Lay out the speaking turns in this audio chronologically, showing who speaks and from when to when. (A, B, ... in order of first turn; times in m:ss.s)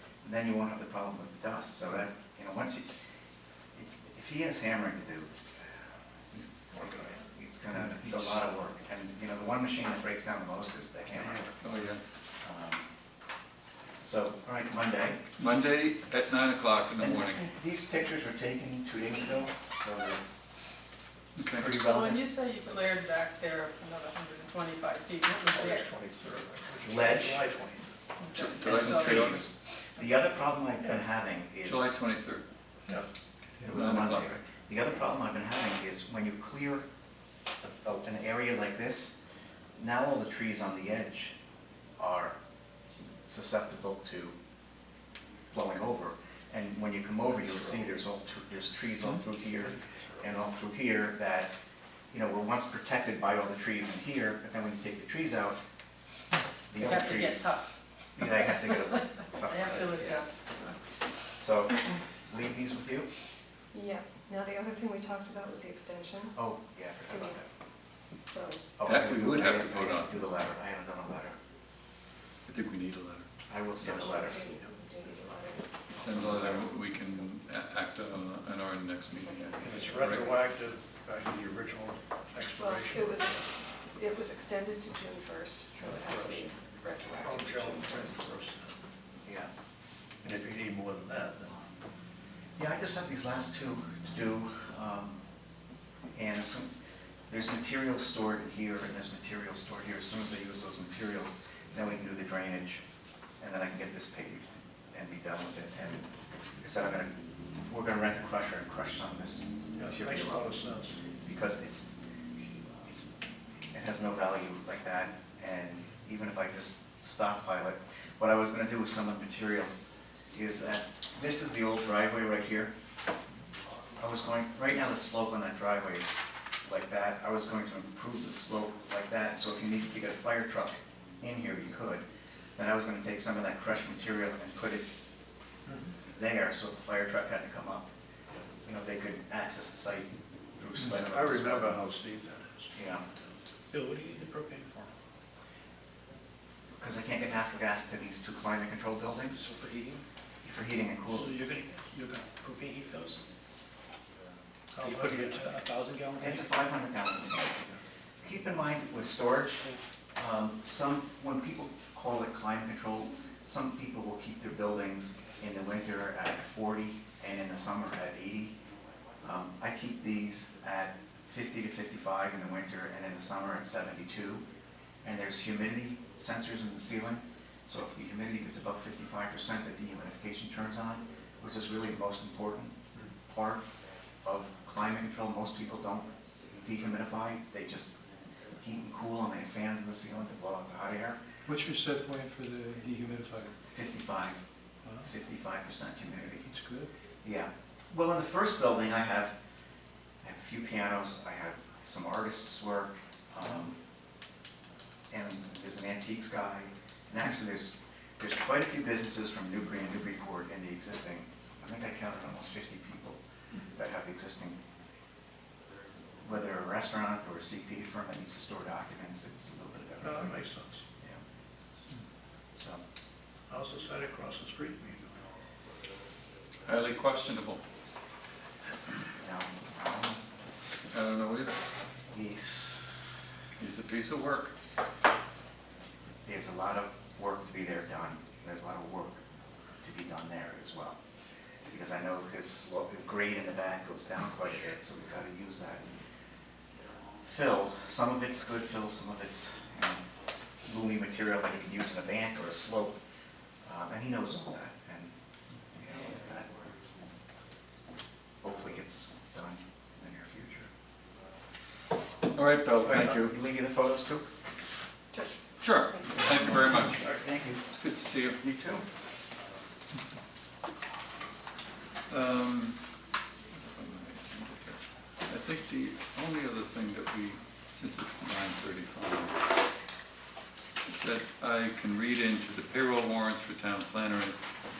0:00.2-0:02.9 A
0:03.7-0:05.3 A
0:06.3-0:11.5 A
0:06.7-0:07.1 B
0:11.6-0:12.0 C
0:12.4-0:12.8 A
0:14.0-0:15.2 A
0:15.4-0:17.5 C
0:17.0-0:20.2 A
0:21.4-0:21.7 C
0:21.5-0:22.2 A
0:21.8-0:25.9 D
0:25.2-0:27.9 B
0:26.8-0:27.4 A
0:28.2-0:29.3 D
0:28.3-0:29.4 C
0:28.6-0:31.9 A
0:31.6-0:32.4 C
0:33.6-0:36.8 A
0:33.7-0:34.4 C
0:37.6-0:39.1 A
0:39.8-0:41.3 A
0:42.0-0:42.4 A
0:43.3-0:44.4 A
0:45.5-0:51.6 A
0:52.1-0:55.6 A
0:56.7-0:57.5 A
0:56.8-0:57.6 D
0:58.2-1:00.3 A
0:58.2-1:00.8 D
1:01.4-1:03.1 A
1:03.7-1:06.4 E
1:06.3-1:07.4 A
1:07.1-1:07.4 E
1:08.2-1:08.6 E
1:08.8-1:11.4 A
1:08.8-1:10.2 C
1:12.4-1:13.2 C
1:13.5-1:14.4 A
1:13.8-1:17.1 E
1:16.0-1:20.3 C
1:16.0-1:16.6 A
1:19.2-1:19.9 E
1:19.6-1:23.4 B
1:22.6-1:28.2 E
1:27.2-1:28.7 B
1:29.2-1:29.5 A
1:30.2-1:31.5 B
1:32.6-1:35.2 A
1:36.1-1:36.7 A
1:37.3-1:42.8 A
1:43.4-1:46.1 A
1:46.6-1:47.1 A
1:47.7-1:50.5 A
1:49.8-1:51.0 B
1:51.2-1:51.9 A
1:53.7-1:59.7 A
2:00.3-2:02.7 A
2:04.0-2:12.0 A
2:12.6-2:14.9 A
2:16.1-2:17.9 A
2:18.6-2:21.8 A
2:20.8-2:22.7 B
2:22.7-2:23.0 A
2:23.9-2:24.8 F
2:26.8-2:29.4 A
2:29.3-2:30.0 F
2:30.4-2:31.4 A
2:31.1-2:33.2 F
2:34.7-2:35.6 B
2:34.8-2:36.5 F
2:36.2-2:37.6 A
2:38.2-2:48.5 A
2:49.2-2:54.4 A
2:55.0-3:03.6 A
3:04.2-3:07.9 A
3:08.6-3:11.2 A
3:11.4-3:13.5 G
3:11.7-3:12.4 F
3:13.7-3:14.4 A
3:14.8-3:15.1 F
3:15.1-3:16.4 A
3:16.4-3:16.9 F
3:17.2-3:19.4 A
3:20.2-3:23.8 A
3:25.1-3:33.2 A
3:33.7-3:34.6 A
3:36.2-3:40.4 A
3:40.0-3:40.8 B
3:43.5-3:45.0 B
3:46.6-3:47.6 C
3:49.2-3:50.2 A
3:50.9-3:51.6 C
3:52.1-3:53.1 A
3:53.6-3:54.5 C
3:56.2-3:59.2 A
3:59.8-4:01.0 A
4:01.6-4:05.8 A
4:07.2-4:10.0 A
4:10.6-4:13.0 A
4:13.6-4:15.1 A
4:15.8-4:16.5 A
4:18.4-4:20.7 A
4:22.2-4:23.4 C
4:22.7-4:24.3 A
4:25.1-4:25.4 E
4:25.6-4:27.1 C
4:26.2-4:27.6 A
4:27.7-4:28.4 C
4:28.4-4:28.8 A
4:32.1-4:32.8 C
4:33.5-4:39.4 C
4:40.8-4:44.4 C